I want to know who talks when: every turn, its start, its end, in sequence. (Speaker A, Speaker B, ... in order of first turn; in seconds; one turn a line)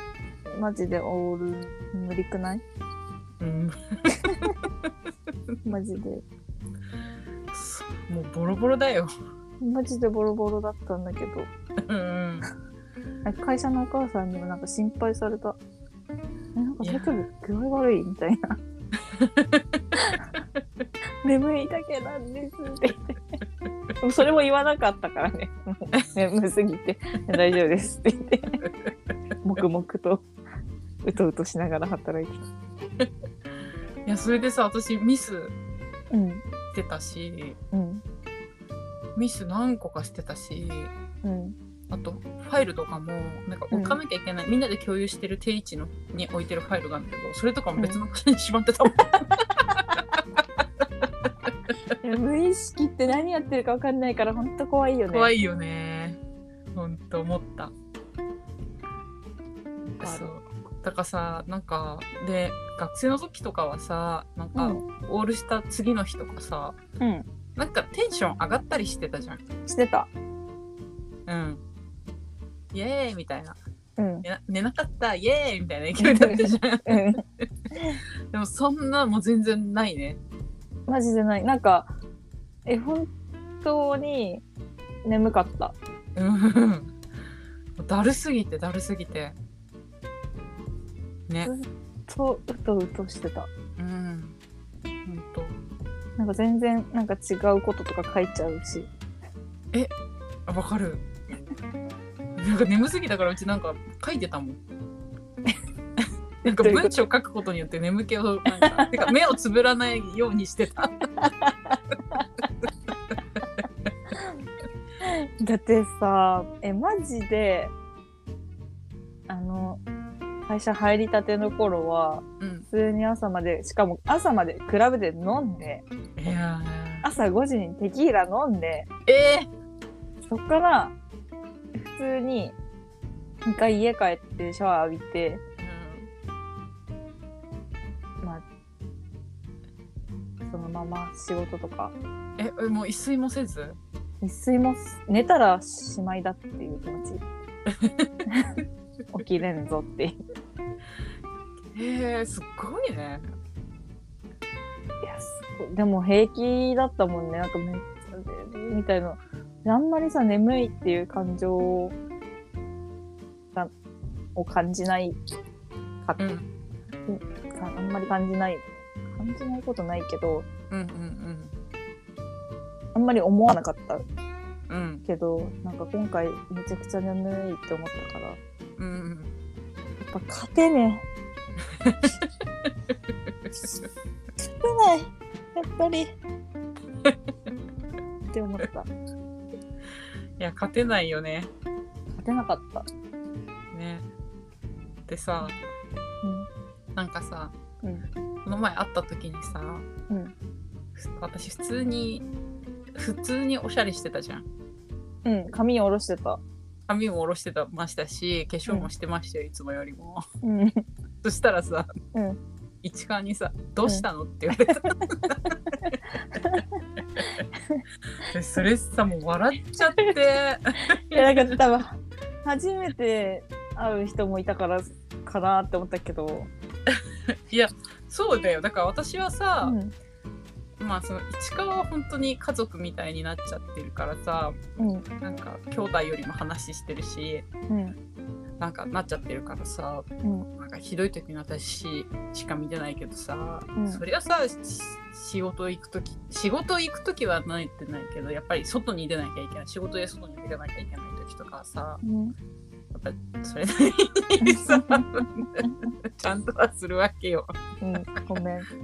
Speaker A: 0.5-2.6
Speaker B: 3.4-3.7
Speaker B: 4.3-4.9
Speaker A: 5.6-6.2
Speaker B: 7.5-9.1
Speaker A: 9.6-11.5
Speaker B: 11.8-12.5
Speaker A: 13.2-15.6
Speaker A: 16.6-18.6
Speaker B: 16.8-17.2
Speaker B: 19.1-19.8
Speaker A: 21.2-23.2
Speaker A: 24.0-28.6
Speaker B: 28.6-28.9
Speaker A: 29.4-30.2
Speaker A: 31.0-32.5
Speaker B: 34.0-35.5
Speaker A: 36.1-36.4
Speaker B: 36.7-37.6
Speaker A: 37.7-38.0
Speaker B: 39.1-40.9
Speaker A: 41.2-41.5
Speaker B: 41.9-51.5
Speaker A: 43.7-44.0
Speaker A: 52.0-55.3
Speaker B: 55.1-56.2
Speaker B: 56.7-57.7
Speaker B: 60.0-66.8
Speaker A: 60.0-60.3
Speaker A: 64.5-64.8
Speaker A: 67.0-67.3
Speaker B: 67.5-69.4
Speaker A: 69.7-70.1
Speaker B: 71.3-71.6
Speaker B: 72.7-73.6
Speaker A: 74.0-74.2
Speaker B: 74.2-77.4
Speaker A: 76.0-77.2
Speaker A: 77.7-78.0
Speaker B: 78.3-80.2
Speaker A: 80.9-81.9
Speaker A: 82.7-83.1
Speaker A: 83.6-84.4
Speaker A: 85.0-85.8
Speaker B: 86.2-86.9
Speaker B: 87.8-89.4
Speaker A: 91.4-93.5
Speaker B: 93.8-94.4
Speaker B: 95.0-95.6
Speaker A: 96.2-98.9
Speaker B: 100.5-101.1
Speaker B: 102.4-104.6
Speaker A: 106.4-106.9
Speaker B: 106.4-111.1
Speaker A: 108.5-109.1
Speaker A: 111.2-112.2
Speaker B: 112.6-112.9
Speaker A: 115.0-117.7
Speaker A: 119.3-119.8
Speaker A: 120.5-125.8
Speaker B: 122.4-122.7
Speaker B: 126.2-127.1
Speaker A: 127.0-128.9
Speaker B: 129.1-129.5
Speaker A: 130.3-130.9
Speaker A: 131.7-132.5
Speaker A: 133.4-135.4
Speaker B: 135.6-136.1
Speaker A: 140.4-141.9
Speaker B: 142.4-143.8
Speaker A: 144.2-147.2
Speaker B: 147.7-148.1
Speaker A: 148.2-148.6
Speaker A: 149.1-150.2
Speaker B: 151.7-153.3
Speaker A: 155.0-161.9
Speaker A: 164.3-165.2
Speaker B: 166.2-166.5
Speaker A: 167.1-170.4
Speaker B: 170.7-171.6
Speaker A: 172.9-174.0
Speaker B: 174.7-175.0
Speaker A: 175.1-178.4
Speaker B: 178.8-179.3
Speaker A: 180.0-181.0
Speaker B: 181.8-182.1
Speaker B: 183.3-183.6
Speaker A: 184.4-186.2
Speaker A: 188.3-188.9
Speaker B: 190.4-191.5
Speaker A: 192.1-192.8
Speaker B: 193.7-194.1
Speaker B: 195.1-195.6
Speaker A: 196.2-196.5
Speaker B: 196.9-197.5
Speaker B: 198.4-199.9
Speaker B: 200.9-202.3
Speaker B: 203.0-204.5
Speaker A: 205.2-206.4
Speaker B: 206.9-210.2
Speaker A: 210.4-210.8
Speaker B: 211.2-211.9
Speaker A: 212.1-212.4
Speaker B: 212.8-216.0
Speaker A: 216.3-216.6
Speaker B: 218.2-221.6
Speaker A: 221.1-226.5
Speaker B: 227.5-229.8
Speaker A: 229.6-229.9
Speaker B: 230.8-234.6
Speaker A: 234.8-235.1
Speaker B: 235.2-237.4
Speaker A: 237.7-237.9
Speaker B: 238.6-252.0
Speaker A: 243.8-244.0
Speaker A: 252.0-252.3
Speaker B: 252.9-257.5
Speaker A: 254.4-255.0
Speaker A: 257.8-258.7